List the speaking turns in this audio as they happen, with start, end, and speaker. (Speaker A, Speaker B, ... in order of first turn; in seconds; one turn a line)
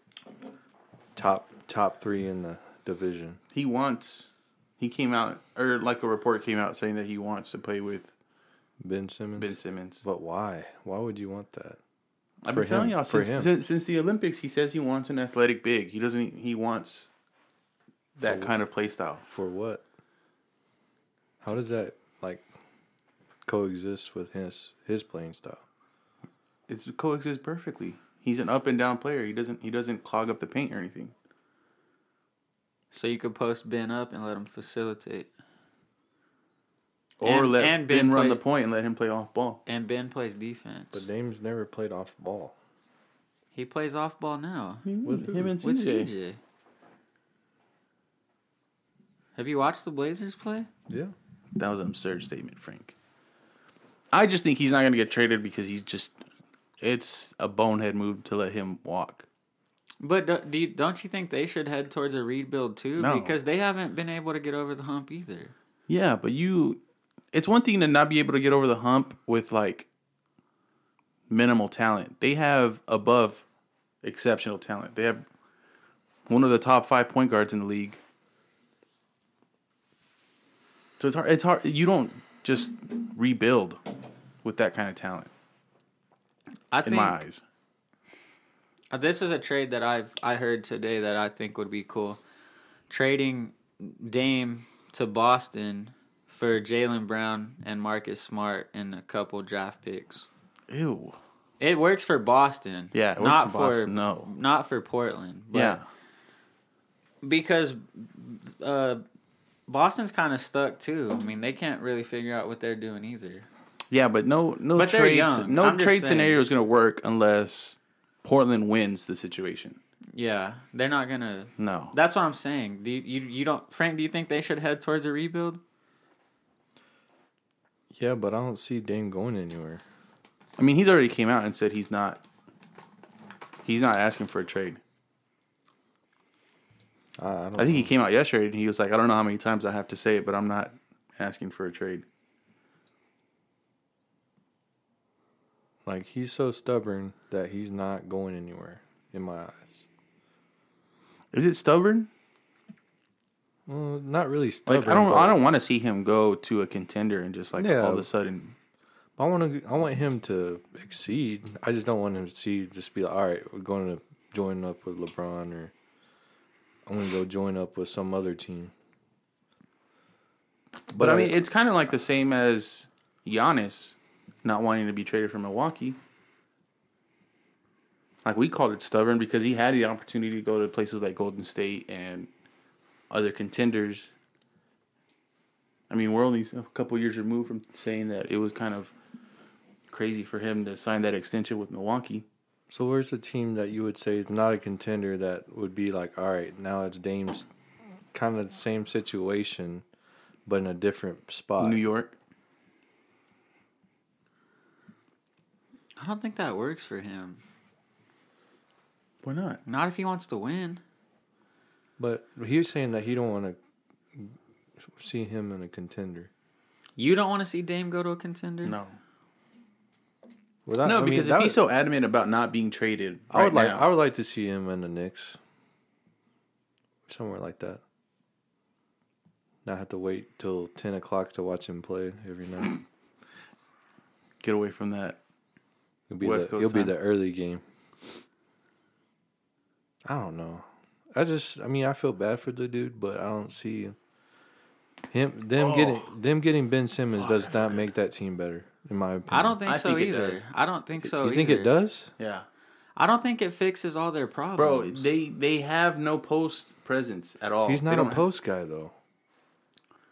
Speaker A: 1.1-3.4
Speaker B: 3.5-8.1
Speaker A: 8.8-11.8
Speaker B: 9.4-10.0
Speaker B: 12.4-17.1
Speaker A: 12.5-13.5
Speaker B: 18.2-19.2
Speaker A: 18.2-18.5
Speaker A: 19.3-19.8
Speaker A: 21.4-22.5
Speaker A: 23.4-25.6
Speaker B: 26.7-31.1
Speaker C: 32.9-35.3
Speaker B: 37.2-39.6
Speaker C: 37.2-38.4
Speaker C: 39.7-41.0
Speaker A: 40.9-42.5
Speaker C: 43.5-44.9
Speaker B: 44.9-46.1
Speaker A: 45.0-45.6
Speaker C: 45.6-46.4
Speaker C: 49.4-50.7
Speaker A: 50.9-51.1
Speaker B: 51.6-52.9
Speaker B: 54.1-56.2
Speaker B: 56.8-59.3
Speaker C: 60.0-65.5
Speaker B: 63.0-63.4
Speaker B: 65.9-66.8
Speaker B: 67.3-69.9
Speaker B: 71.3-73.4
Speaker B: 74.0-75.2
Speaker B: 76.3-78.0
Speaker B: 81.0-83.8
Speaker B: 84.4-85.3
Speaker C: 86.7-87.2
Speaker B: 86.8-87.4
Speaker C: 88.9-92.2
Speaker C: 92.9-100.3
Speaker B: 100.7-101.2
Speaker C: 101.6-105.8
Speaker B: 102.9-104.3
Speaker B: 105.5-105.9
Speaker C: 107.2-109.0
Speaker C: 109.7-113.5
Speaker B: 113.9-119.8
Speaker C: 114.8-116.4
Speaker C: 120.1-125.6
Speaker B: 121.6-121.9
Speaker A: 127.9-129.8
Speaker B: 130.6-132.2
Speaker B: 133.6-134.8
Speaker A: 137.2-137.9
Speaker B: 137.6-142.1
Speaker A: 145.8-149.9
Speaker B: 151.3-152.1
Speaker A: 153.7-155.4
Speaker B: 154.7-158.6
Speaker A: 157.6-158.1
Speaker A: 159.2-165.7
Speaker A: 166.9-168.7
Speaker B: 170.9-176.0
Speaker A: 170.9-171.4
Speaker B: 178.2-182.3
Speaker B: 183.1-184.1
Speaker B: 185.9-188.9
Speaker B: 189.9-192.3
Speaker A: 192.7-197.5
Speaker A: 198.1-199.8
Speaker A: 200.5-201.8
Speaker B: 201.6-202.2
Speaker C: 206.0-207.4
Speaker B: 209.2-209.6
Speaker C: 209.7-210.8
Speaker A: 212.0-213.6
Speaker A: 214.9-216.3
Speaker C: 217.0-218.8
Speaker B: 218.6-219.0
Speaker A: 220.7-221.6
Speaker B: 220.8-223.9
Speaker A: 223.3-225.4
Speaker A: 227.1-227.8
Speaker A: 229.7-232.8
Speaker B: 234.4-235.2
Speaker A: 236.1-237.6
Speaker B: 236.2-236.9
Speaker A: 240.1-244.0
Speaker A: 245.1-249.6
Speaker B: 245.6-246.1
Speaker B: 247.1-247.9
Speaker C: 249.3-251.7
Speaker B: 249.7-250.5
Speaker A: 251.0-252.1
Speaker B: 252.2-252.5
Speaker C: 253.0-255.1
Speaker B: 254.6-258.2
Speaker A: 257.7-258.9